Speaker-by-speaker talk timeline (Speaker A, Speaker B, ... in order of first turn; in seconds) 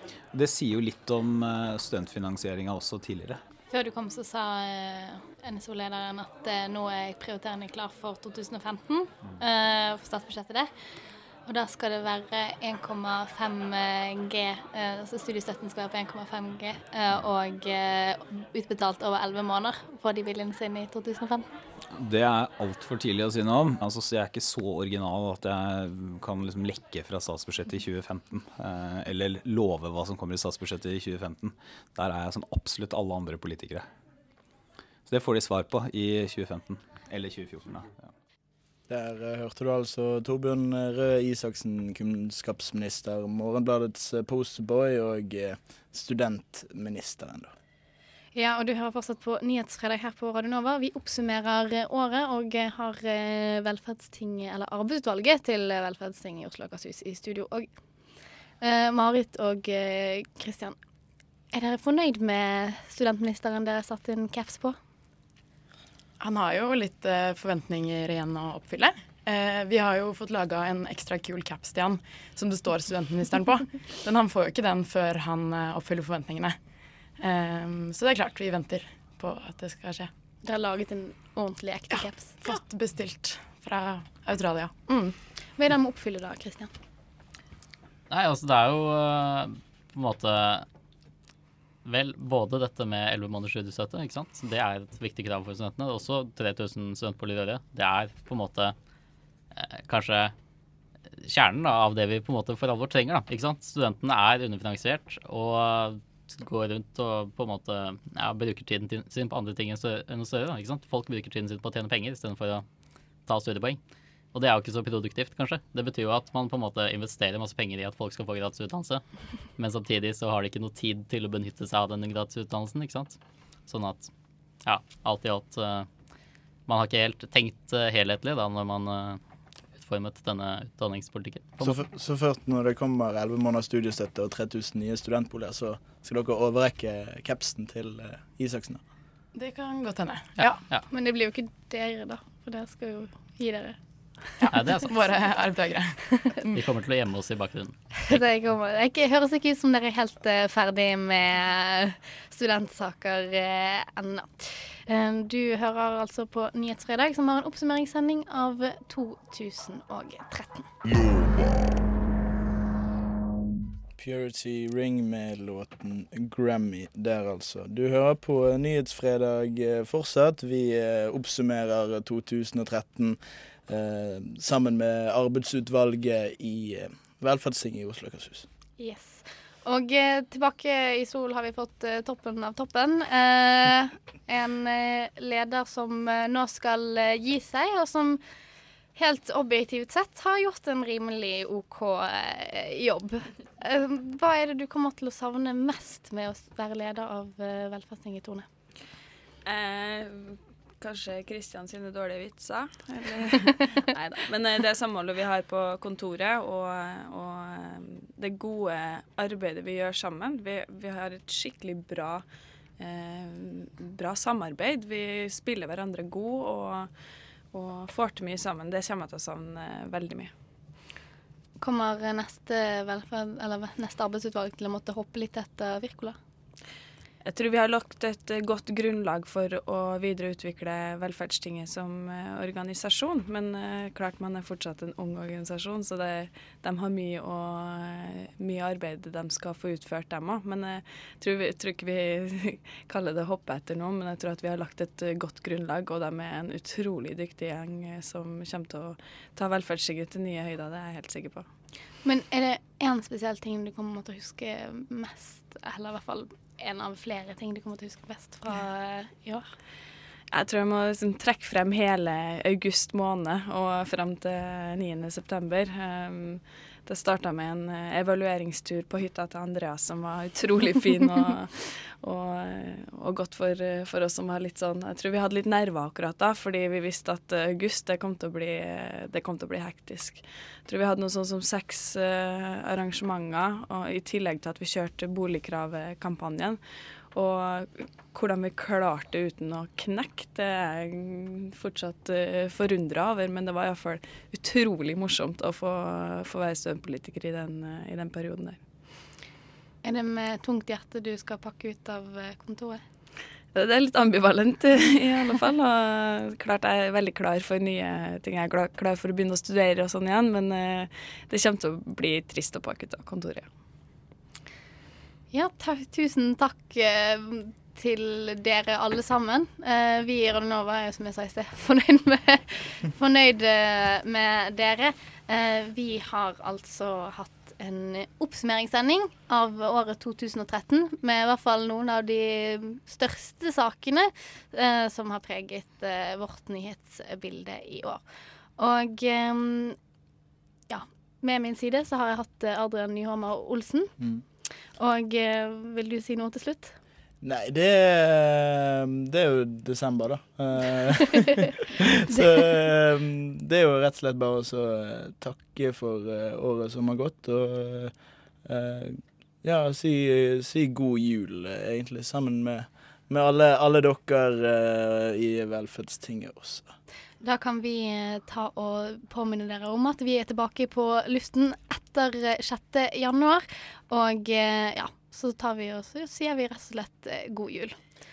Speaker A: 0.3-3.4, 22.0-33.9, 35.1-38.1
Speaker B: 3.7-10.7, 11.5-21.5, 48.4-57.7, 58.6-60.8, 61.5-64.8, 80.4-82.6, 85.6-86.7, 140.9-143.8, 148.1-160.7, 178.8-188.2, 189.0-198.5, 221.6-226.2, 252.0-259.4, 299.8-302.8, 315.3-338.0, 338.6-339.8, 340.7-343.9, 344.8-346.8, 367.2-377.8
Speaker C: 38.9-47.5, 131.6-138.8, 164.0-178.5, 347.2-357.9, 358.4-366.7
Speaker D: 66.2-76.6, 77.2-80.1, 81.9-85.1, 139.3-140.6, 144.4-146.6
Speaker E: 88.1-90.7, 91.8-98.8, 99.6-100.3, 101.3-112.7, 113.3-113.8, 114.3-119.0, 119.6-124.1, 124.7-125.9, 126.7-129.2, 129.8-131.8, 140.4-140.8, 144.5-144.9, 146.5-148.2
Speaker F: 199.5-212.2, 212.8-216.9, 217.5-220.3, 227.2-251.5, 260.3-286.6, 287.1-298.6, 303.5-313.5